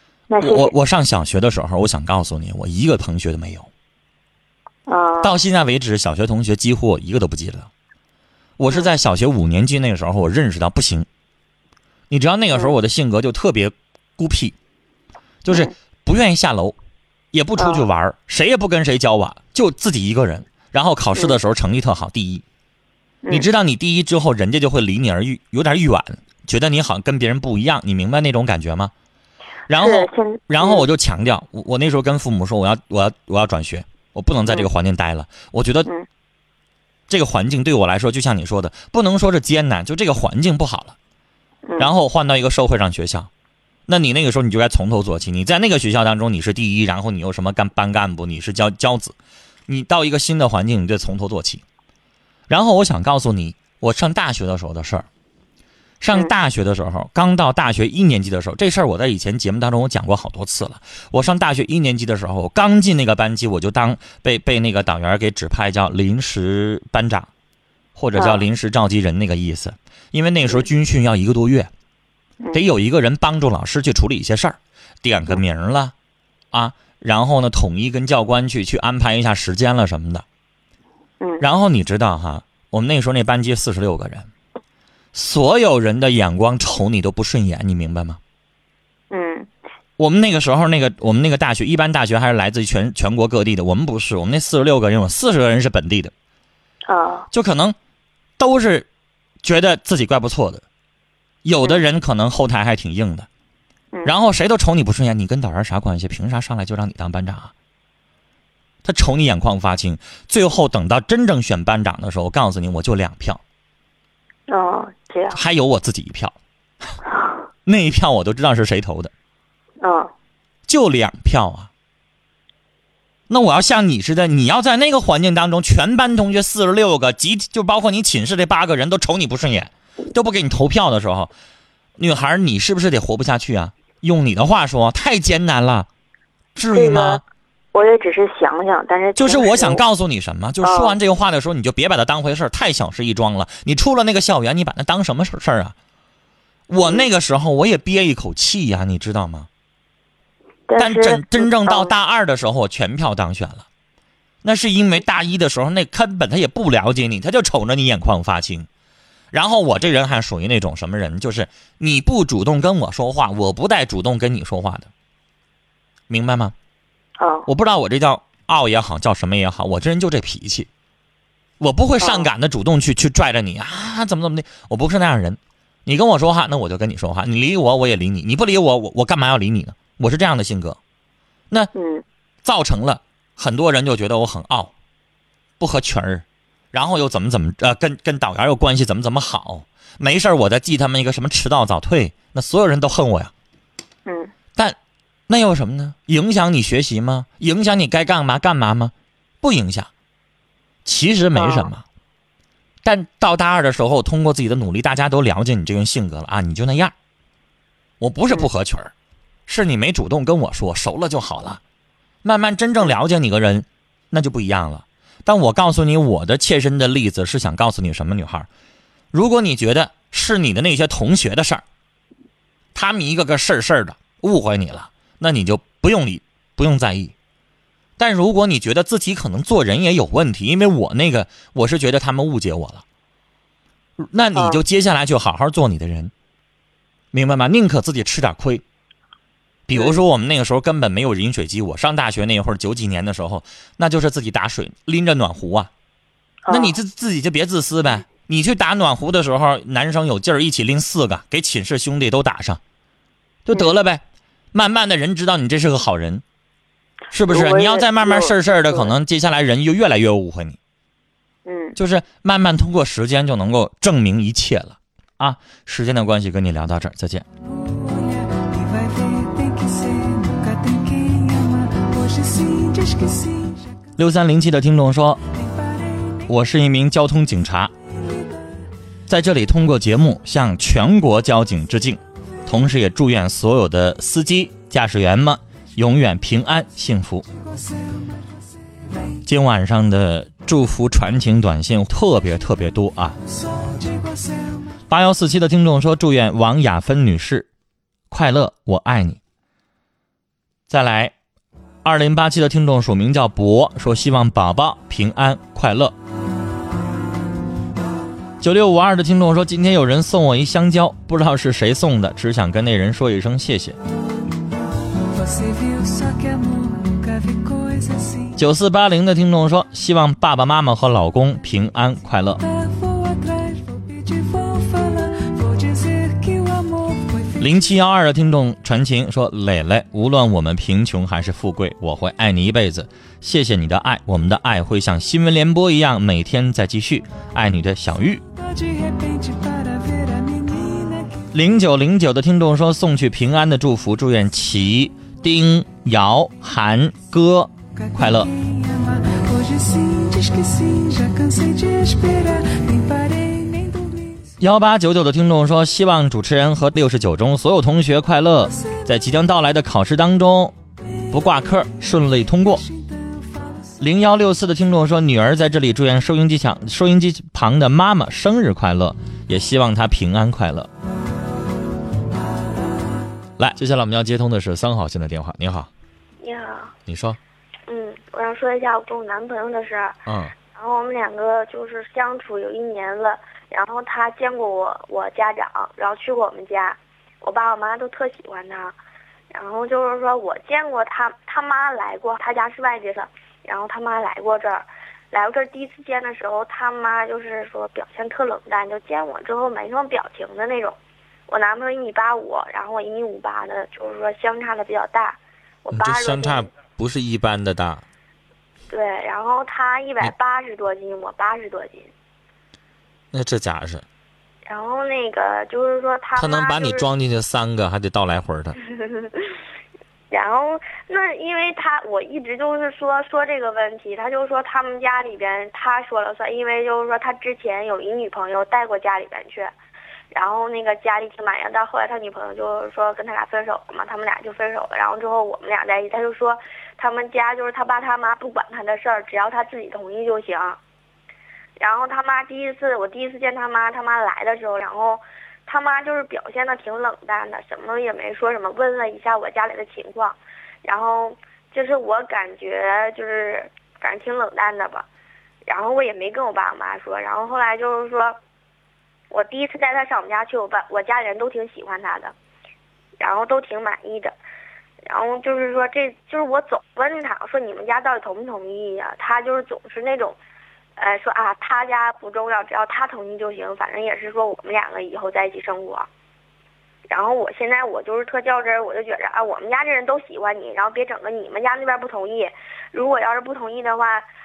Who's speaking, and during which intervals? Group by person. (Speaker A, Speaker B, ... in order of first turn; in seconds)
Speaker A: 0.3-0.7, 4.9-5.4, 17.6-17.9, 29.8-30.9, 41.7-41.9, 68.1-68.5, 81.2-81.5, 89.1-89.5, 96.9-97.3, 114.5-115.4, 119.8-120.1, 136.7-137.2, 137.7-139.8, 140.6-141.0, 150.7-151.9, 167.2-167.5, 172.0-172.3, 181.7-182.1, 194.1-194.3, 201.3-201.7, 234.3-234.6, 246.5-246.8, 257.3-258.9, 261.4-261.8
Speaker B: 0.4-3.7, 5.2-7.7, 8.6-11.1, 12.1-14.6, 15.4-16.8, 17.3-22.4, 23.3-28.9, 29.7-35.9, 37.1-41.0, 41.8-43.3, 43.9-49.2, 49.7-51.6, 52.5-55.1, 56.0-67.3, 68.0-71.7, 72.5-75.9, 76.5-80.2, 81.4-84.3, 85.1-88.2, 90.0-96.1, 97.3-97.8, 98.4-98.9, 99.4-100.6, 101.4-103.3, 104.0-107.5, 108.8-113.4, 115.3-116.4, 117.7-119.1, 120.7-121.7, 123.3-131.3, 132.0-135.9, 136.6-137.2, 139.2-145.8, 146.7-149.5, 150.8-153.7, 154.4-158.7, 159.3-164.9, 166.1-166.5, 167.5-170.7, 171.6-180.8, 182.4-184.7, 185.6-193.3, 195.3-199.9, 200.8-201.8, 202.8-206.9, 208.0-208.9, 209.5-211.6, 212.2-218.5, 219.1-221.6, 222.8-227.1, 228.0-232.8, 234.0-236.1, 237.1-238.6, 239.7-245.7, 246.5-252.6, 253.5-256.2, 257.1-260.6, 261.8-267.3, 274.0-275.2, 276.3-277.7, 279.1-287.3, 289.2-293.2, 294.9-297.5, 298.1-299.2, 300.7-301.1, 301.9-305.9, 308.4-313.8, 318.3-322.4, 327.4-338.2, 341.3-348.3, 354.4-360.6, 361.1-362.7, 363.8-370.7, 373.4-375.7, 376.9-377.2, 380.1-380.3, 405.7-407.9, 413.1-413.9, 416.2-418.6
Speaker C: 376.2-376.7, 377.7-380.0, 380.5-388.8, 389.3-400.8, 401.3-406.5, 408.7-411.9, 414.5-416.9, 418.7-419.3, 420.1-429.5, 430.1-440.6, 441.6-454.9, 455.5-458.2, 459.1-462.1, 463.0-464.1, 464.9-470.2, 470.8-475.9, 476.9-484.1